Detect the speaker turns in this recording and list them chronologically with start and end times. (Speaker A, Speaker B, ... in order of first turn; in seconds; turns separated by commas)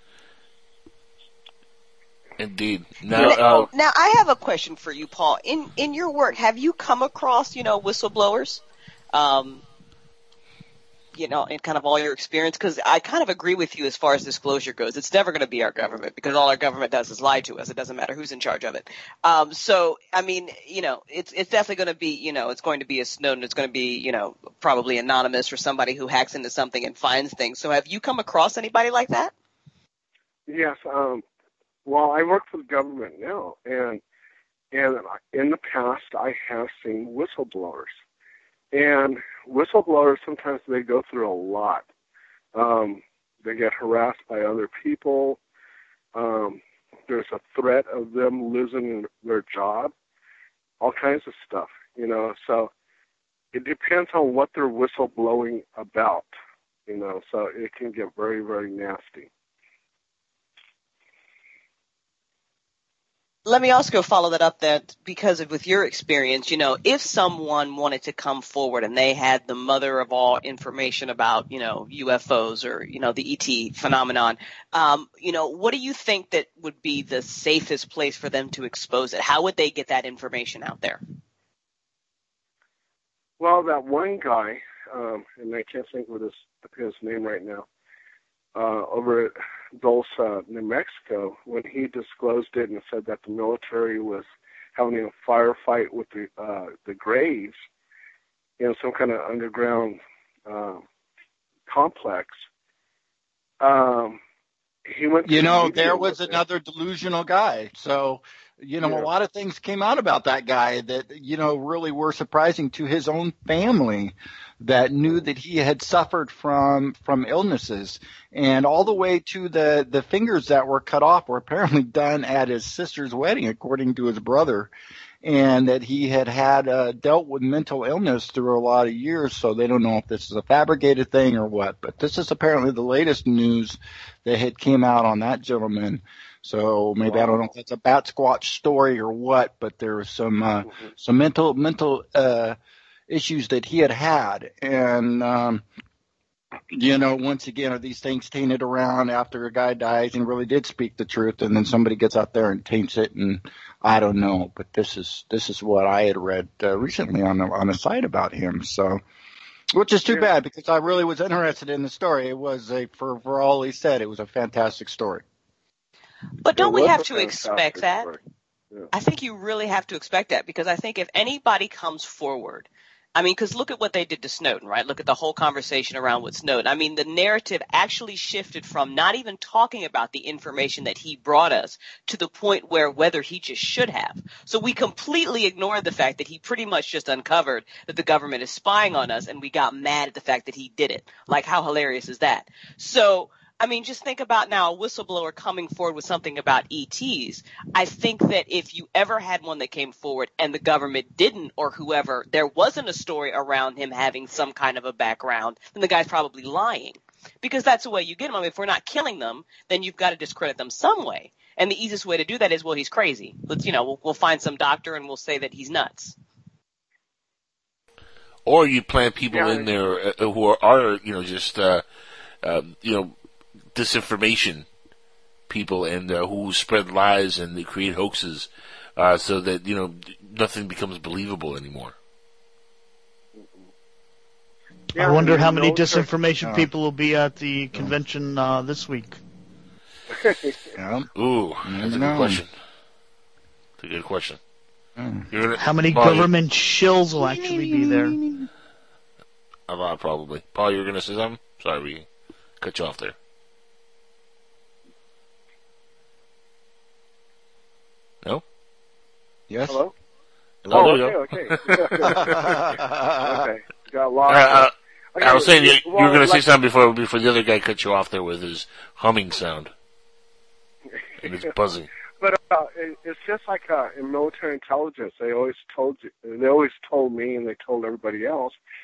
Speaker A: 2.4-3.7, Speaker B: 3.1-8.6, Speaker B: 9.1-9.6, Speaker B: 11.2-29.3, Speaker C: 30.5-31.2, Speaker C: 31.9-34.0, Speaker C: 34.7-37.9, Speaker C: 38.7-41.9, Speaker C: 42.5-45.4, Speaker C: 46.1-49.9, Speaker C: 50.8-52.7, Speaker C: 53.5-56.3, Speaker C: 56.9-59.3, Speaker B: 63.5-81.0, Speaker C: 83.4-87.7, Speaker C: 88.5-97.6, Speaker C: 98.6-100.8, Speaker C: 101.7-102.4, Speaker C: 103.6-104.2, Speaker C: 104.9-106.4, Speaker D: 105.3-124.7, Speaker C: 108.8-109.1, Speaker D: 125.2-142.6, Speaker C: 137.0-137.5, Speaker D: 143.1-145.6, Speaker D: 146.7-159.0, Speaker D: 159.7-165.2, Speaker B: 166.4-168.1, Speaker C: 166.6-168.2, Speaker B: 168.9-216.2, Speaker A: 218.5-221.8, Speaker C: 219.3-219.7, Speaker A: 222.4-223.2, Speaker A: 223.7-224.7, Speaker A: 225.5-231.9, Speaker C: 234.9-236.1, Speaker E: 235.0-239.2, Speaker D: 236.4-236.7, Speaker C: 240.1-240.7, Speaker D: 240.8-241.1, Speaker A: 241.2-242.5, Speaker D: 241.6-242.4, Speaker A: 243.8-244.4, Speaker D: 245.0-245.3, Speaker A: 245.3-246.3, Speaker E: 245.6-248.2, Speaker D: 247.1-248.5, Speaker A: 249.7-252.1, Speaker A: 252.6-253.2, Speaker D: 259.5-259.8, Speaker C: 259.7-259.9, Speaker A: 260.6-262.6, Speaker D: 260.7-260.9, Speaker C: 260.7-262.6, Speaker D: 262.0-263.4, Speaker C: 263.2-266.5, Speaker A: 264.3-269.7, Speaker A: 271.2-271.9, Speaker C: 272.2-278.6